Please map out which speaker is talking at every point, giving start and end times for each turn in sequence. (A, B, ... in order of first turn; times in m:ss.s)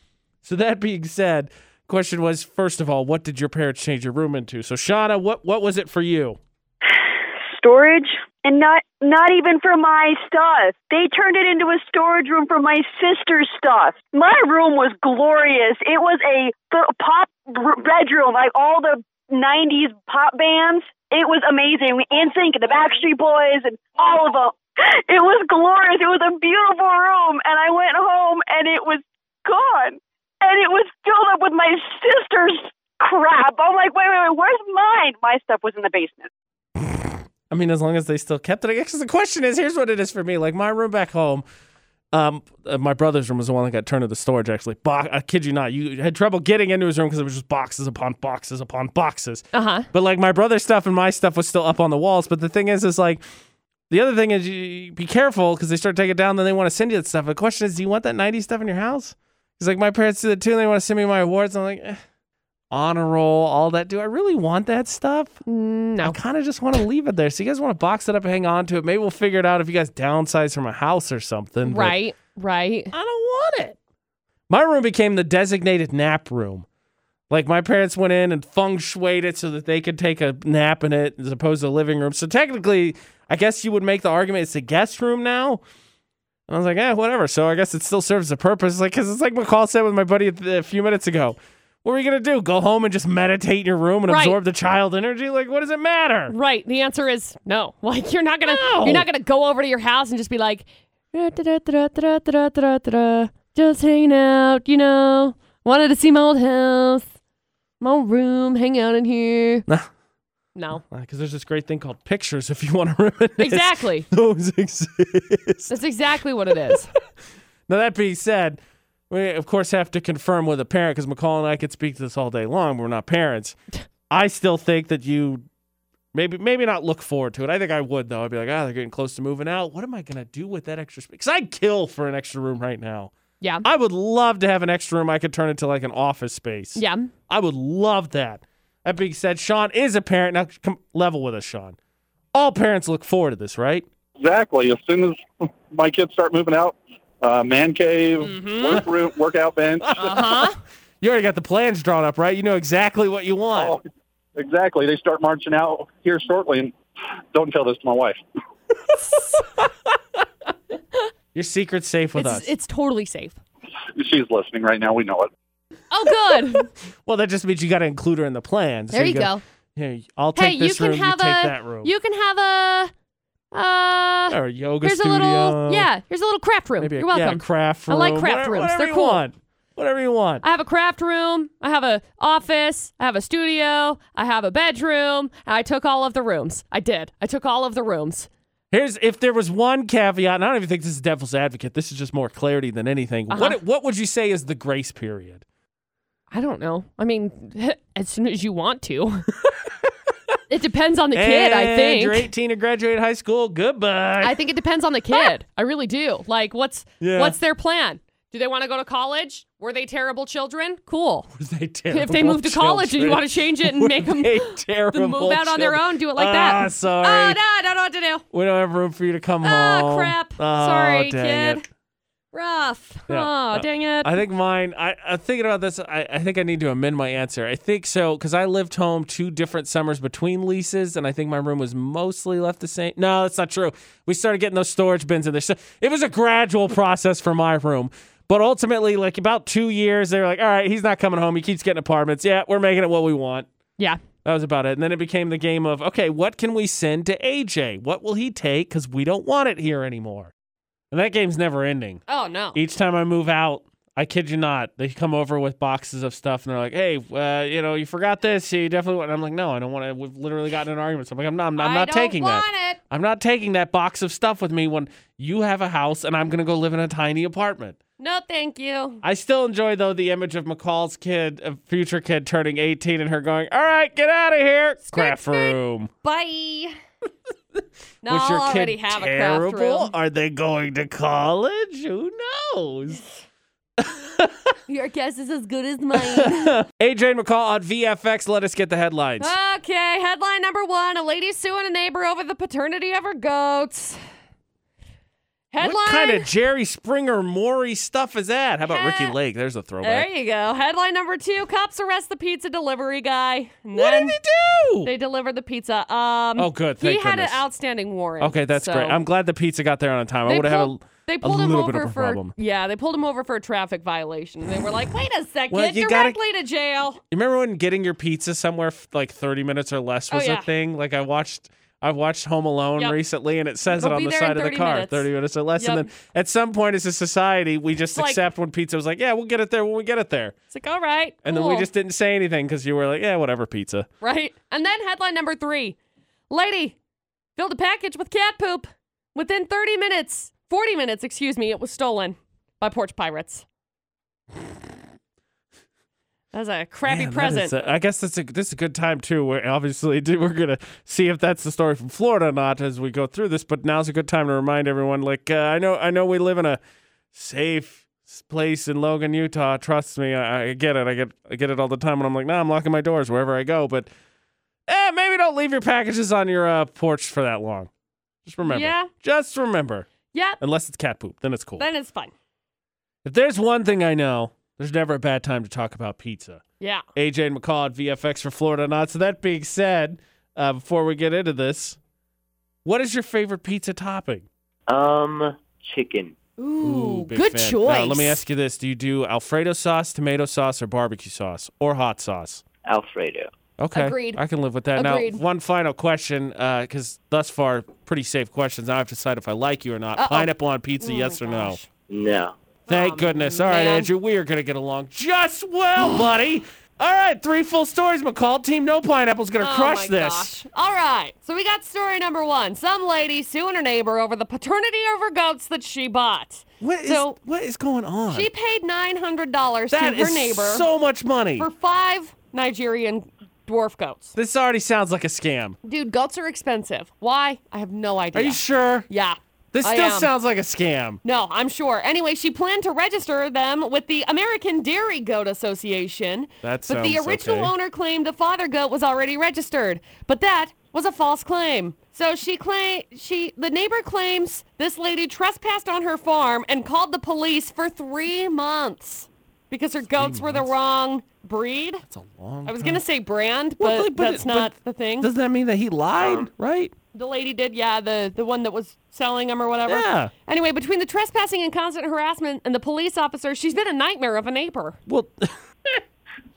0:00.4-0:06.4 A
0:06.9-0:36.3 B
0:36.8-0:41.4 A
0:42.1-0:53.2 A
0:49.5-0:49.9 C
0:53.9-1:02.0 A
1:02.7-1:05.4 A
1:05.5-1:06.2 C
1:06.0-1:12.0 A
1:11.7-1:12.9 C
1:12.9-1:13.8 A
1:14.5-1:16.7 A
1:17.3-1:25.6 A
1:26.5-1:36.3 A
1:34.1-1:34.4 C
1:36.3-1:47.1 C
1:38.4-1:39.1 A
1:47.8-1:49.7 C
1:50.6-1:50.8 C
1:50.9-1:55.7 A
1:53.4-1:54.1 C
1:55.7-1:56.9 C
1:57.7-1:58.6 A
1:59.1-2:03.6 A
2:04.1-2:05.4 A
2:06.1-2:13.1 A
2:13.4-2:13.7 C
2:13.6-2:21.8 A
2:16.8-2:17.1 C
2:22.3-2:23.8 A
2:24.2-2:30.2 D
2:28.2-2:28.9 C
2:29.8-2:33.8 A
2:30.0-2:30.6 C
2:33.6-2:33.8 D
2:34.4-2:36.8 D
2:37.3-2:38.2 D
2:39.1-2:39.4 C
2:41.4-2:42.5 A
2:42.2-2:43.4 C
2:44.0-2:45.3 D
2:45.9-2:46.7 C
2:47.0-2:51.9 A
2:48.9-2:49.4 C
2:50.4-2:52.9 C
2:53.5-2:59.2 C
2:54.3-2:55.9 A
2:56.8-3:00.4 A
3:00.4-3:08.3 C
3:08.7-3:15.4 A
3:13.3-3:13.6 C
3:16.3-3:19.3 C
3:19.4-3:19.7 A
3:20.5-3:22.3 C
3:21.2-3:24.4 A
3:24.2-3:31.3 C
3:27.0-3:27.4 A
3:31.3-3:37.4 A
3:31.9-3:38.2 C
3:38.3-3:41.6 A
3:39.4-3:41.6 C
3:42.3-3:44.2 C
3:43.1-4:03.5 A
4:04.2-4:10.3 A
4:10.9-4:12.0 A
4:12.1-4:12.6 C
4:12.6-4:27.8 A
4:21.6-4:22.8 C
4:28.0-4:29.0 C
4:29.0-4:35.9 A
4:34.9-4:36.7 C
4:38.0-4:39.9 C
4:38.1-4:43.0 A
4:43.8-4:44.6 A
4:44.7-4:46.6 C
4:46.0-4:49.3 A
4:49.2-4:54.0 C
4:55.5-4:56.3 C
4:55.6-5:00.1 A
4:58.7-4:59.2 C
4:59.8-5:04.2 C
5:03.7-5:04.9 A
5:04.8-5:09.0 C
5:06.4-5:07.4 A
5:08.2-5:12.3 A
5:10.3-5:17.0 C
5:15.5-5:16.2 A
5:17.1-5:30.4 A
5:20.1-5:20.5 C
5:23.7-5:25.9 C
5:27.9-5:28.2 C
5:30.5-5:31.7 C
5:31.2-5:33.9 A
5:34.0-5:35.8 C
5:36.3-5:36.8 C
5:37.4-5:43.4 C
5:46.3-5:47.6 C
5:46.9-5:56.6 A
5:57.1-6:03.9 A
6:04.7-6:07.7 A
6:08.2-6:09.9 A
6:08.4-6:08.9 C
6:10.1-6:10.4 C
6:10.4-6:11.6 A
6:11.6-6:12.1 C
6:13.0-6:16.4 A
6:16.6-6:16.8 C
6:17.0-6:21.8 A
6:22.6-6:24.3 A
6:24.7-6:26.2 E
6:26.4-6:28.2 C
6:26.6-6:32.4 A
6:32.6-6:33.3 E
6:33.6-6:41.6 A
6:33.7-6:34.2 C
6:34.8-6:35.2 C
6:40.0-6:41.7 C
6:41.9-6:42.4 E
6:42.7-6:43.9 C
6:42.7-6:50.3 A
6:49.4-6:57.2 C
6:56.6-6:58.3 A
6:58.1-7:00.7 C
6:59.7-7:01.5 A
7:01.4-7:04.2 C
7:04.2-7:05.6 A
7:05.6-7:10.1 C
7:08.1-7:08.9 A
7:09.5-7:11.0 A
7:11.0-7:31.8 C
7:16.4-7:17.5 A
7:30.0-7:30.5 A
7:31.9-7:32.8 A
7:32.5-7:35.1 C
7:33.6-7:36.7 A
7:36.0-7:36.3 E
7:36.9-7:44.8 C
7:39.7-7:40.1 A
7:44.9-7:45.8 A